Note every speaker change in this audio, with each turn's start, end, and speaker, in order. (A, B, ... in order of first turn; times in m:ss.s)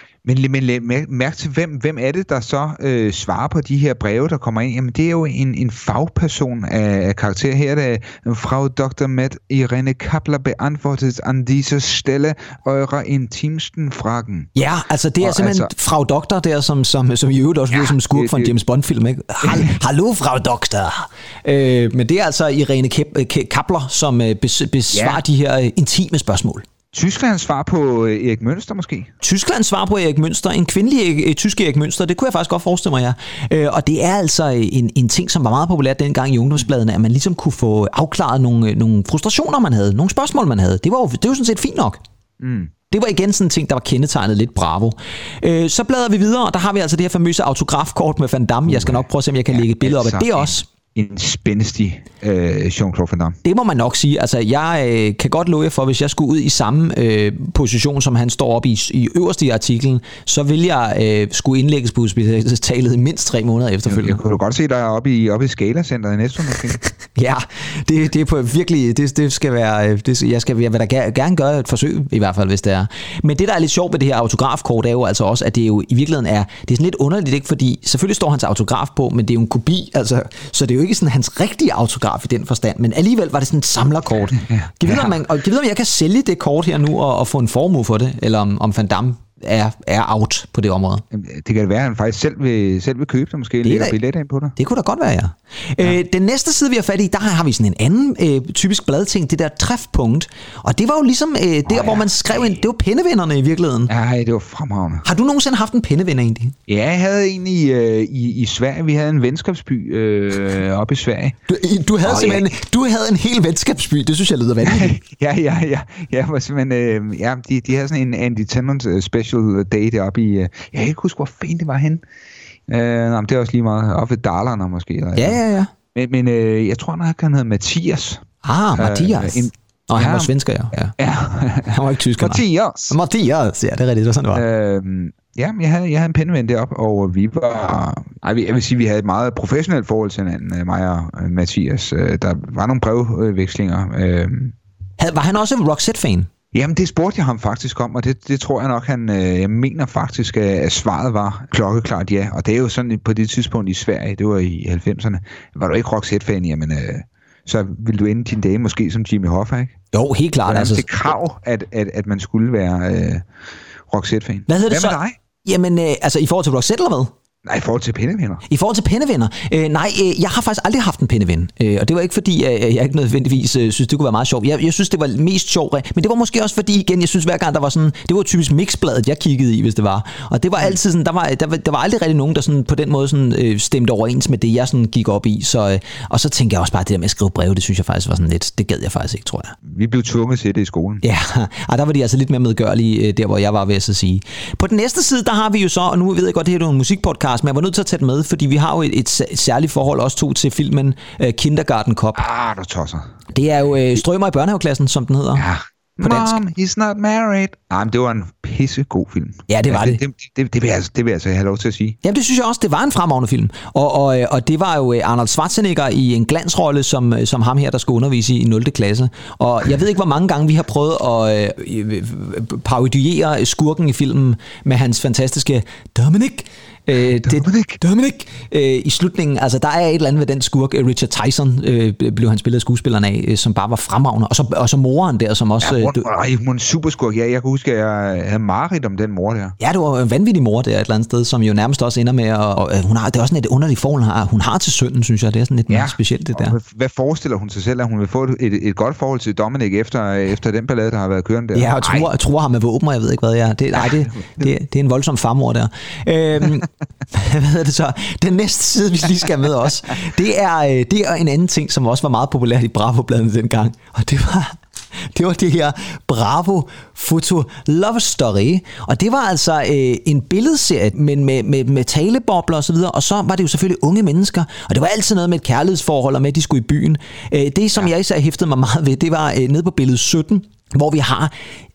0:00.2-0:14.5 A
0:14.5-0:26.6 B
0:15.2-0:15.7 A
0:17.7-0:18.5 A
0:19.4-0:19.7 A
0:24.9-0:25.2 A
0:26.9-0:29.1 A
0:29.2-0:42.0 B
0:42.4-0:42.7 A
0:42.9-0:50.7 B
0:48.7-0:53.4 A
0:53.4-1:04.2 B
1:03.8-1:06.8 A
1:07.1-1:31.0 B
1:24.4-1:25.2 A
1:31.1-1:34.5 A
1:33.6-1:34.0 B
1:34.6-1:43.9 B
1:41.7-1:42.6 A
1:43.9-1:45.0 A
1:45.0-1:46.6 B
1:46.7-1:51.4 A
1:51.5-1:55.0 B
1:52.0-1:52.5 A
1:54.6-2:02.0 A
2:02.7-2:05.4 A
2:05.2-2:05.7 B
2:05.9-2:08.2 A
2:08.4-2:10.9 B
2:08.8-2:10.3 A
2:11.0-2:13.0 A
2:11.6-2:14.4 B
2:14.3-2:24.5 A
2:25.0-2:26.3 B
2:26.5-2:39.7 A
2:39.9-2:40.9 B
2:40.4-2:43.2 A
2:43.9-2:45.2 A
2:44.5-2:47.1 B
2:47.4-2:48.4 A
2:48.5-3:09.5 B
3:09.6-3:11.0 A
3:11.0-3:22.2 B
3:22.1-3:23.1 A
3:23.3-3:25.5 B
3:25.3-3:32.0 A
3:26.0-3:26.4 B
3:29.5-3:30.0 B
3:32.0-3:56.1 B
3:47.2-3:47.8 A
3:55.6-3:59.5 A
3:59.6-4:06.6 B
4:05.7-4:12.1 A
4:11.5-4:41.3 B
4:13.7-4:14.5 A